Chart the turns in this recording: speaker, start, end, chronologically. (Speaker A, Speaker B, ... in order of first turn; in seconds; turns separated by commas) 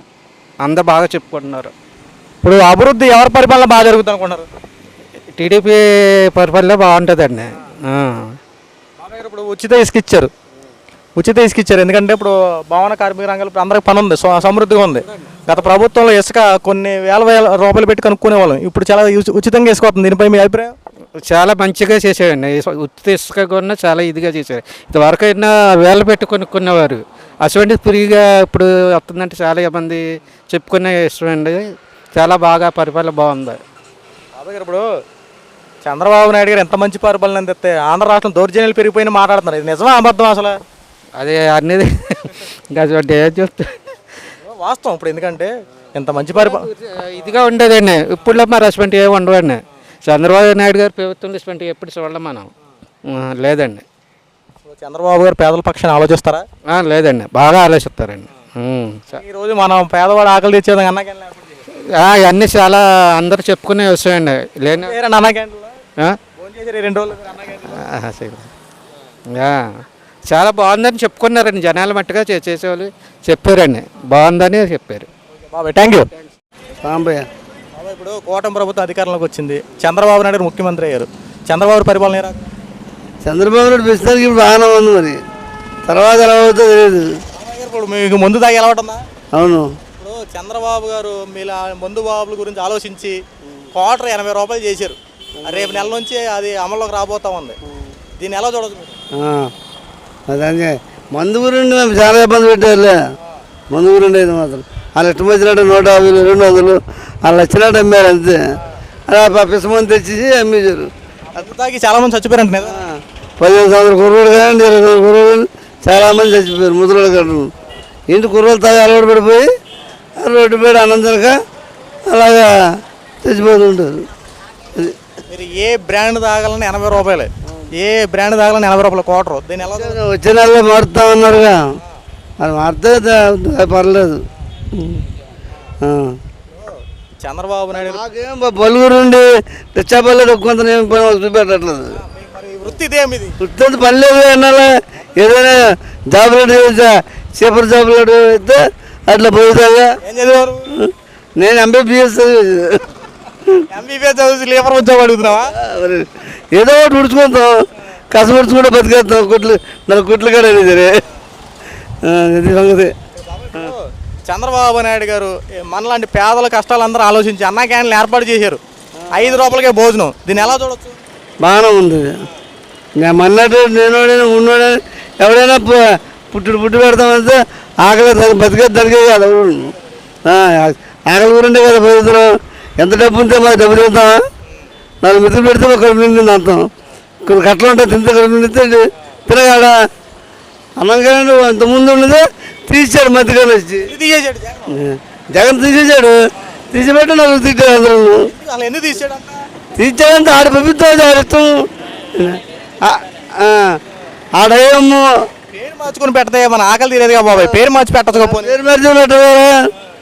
Speaker A: 0.6-1.7, Speaker B: 2.4-4.5, Speaker A: 5.3-8.2, Speaker B: 9.0-10.3, Speaker B: 11.2-20.7, Speaker A: 21.3-31.6, Speaker A: 32.1-33.6, Speaker B: 34.4-34.8, Speaker B: 35.8-40.6, Speaker A: 41.2-43.8, Speaker B: 44.4-46.6, Speaker A: 46.3-52.5, Speaker A: 53.1-53.8, Speaker B: 54.7-56.4, Speaker A: 56.7-59.2, Speaker B: 59.1-61.6, Speaker A: 62.0-65.0, Speaker B: 64.7-65.7, Speaker B: 66.3-67.8, Speaker A: 67.7-68.5, Speaker A: 69.3-69.6, Speaker A: 70.3-75.1, Speaker B: 75.5-76.1, Speaker C: 76.8-77.3, Speaker B: 77.7-82.4, Speaker C: 83.2-85.2, Speaker C: 85.8-87.2, Speaker B: 87.3-89.0, Speaker C: 89.3-89.7, Speaker B: 90.0-93.2, Speaker B: 93.7-97.6, Speaker C: 95.4-95.8, Speaker B: 98.2-99.0, Speaker C: 99.1-99.5, Speaker C: 100.3-103.0, Speaker C: 103.7-108.4, Speaker C: 109.1-110.9, Speaker B: 111.3-112.8, Speaker C: 112.7-117.5, Speaker C: 118.1-119.5, Speaker C: 120.2-121.4, Speaker C: 122.1-124.1, Speaker B: 125.3-130.0, Speaker C: 129.7-131.7, Speaker C: 132.4-134.2, Speaker C: 134.7-135.1, Speaker C: 135.8-136.2, Speaker B: 136.5-138.0, Speaker C: 137.8-141.9, Speaker B: 141.9-143.4, Speaker C: 143.4-149.9, Speaker B: 150.0-150.7, Speaker C: 150.8-152.9, Speaker B: 153.7-155.5, Speaker C: 155.5-157.5, Speaker C: 158.1-161.0, Speaker C: 162.0-162.9, Speaker B: 163.2-168.6, Speaker B: 169.1-171.0, Speaker C: 171.4-172.1, Speaker C: 173.0-179.7, Speaker C: 180.2-184.2, Speaker C: 185.0-186.7, Speaker C: 187.2-189.7, Speaker C: 190.8-193.9, Speaker B: 193.8-194.8, Speaker C: 194.7-196.2, Speaker C: 196.7-198.2, Speaker B: 198.2-199.4, Speaker C: 199.8-201.5, Speaker C: 202.1-203.8, Speaker C: 204.4-205.0, Speaker B: 205.5-208.6, Speaker C: 208.1-209.5